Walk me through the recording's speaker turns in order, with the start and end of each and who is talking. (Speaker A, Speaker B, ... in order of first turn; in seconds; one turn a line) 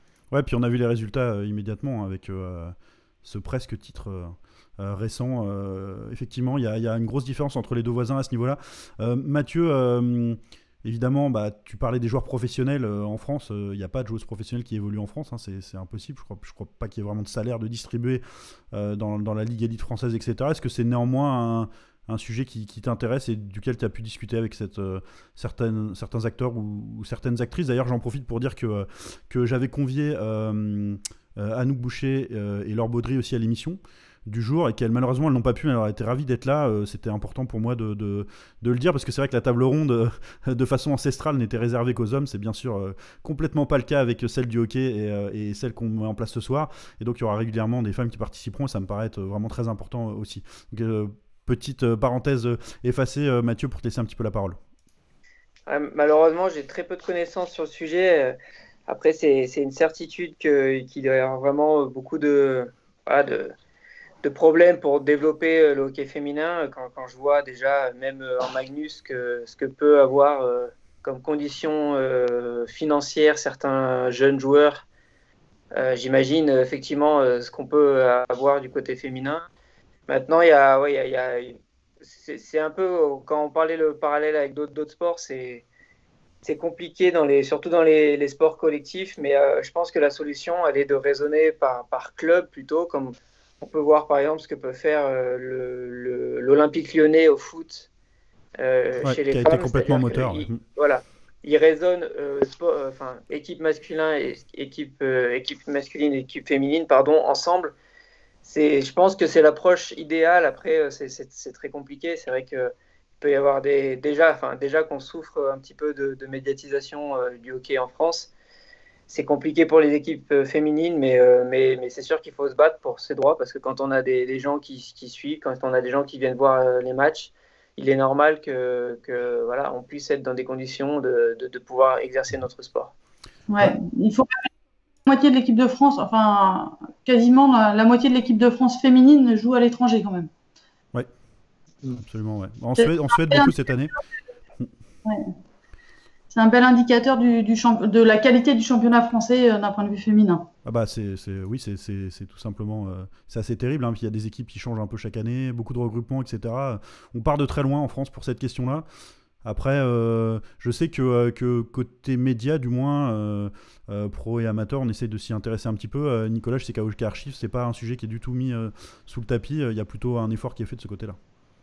Speaker A: 0.3-54.6
Speaker B: 55.7-58.4
Speaker B: 58.9-63.5
Speaker B: 64.2-74.9
Speaker B: 75.8-79.5
Speaker B: 80.1-85.7
Speaker B: 86.4-97.9
Speaker B: 98.6-107.7
Speaker A: 99.0-100.6
Speaker B: 108.4-118.3
Speaker B: 119.1-132.9
Speaker C: 133.5-134.3
Speaker C: 135.1-140.3
Speaker A: 142.1-143.9
Speaker C: 142.8-143.5
Speaker C: 146.3-150.5
Speaker A: 150.7-158.8
Speaker A: 159.4-171.2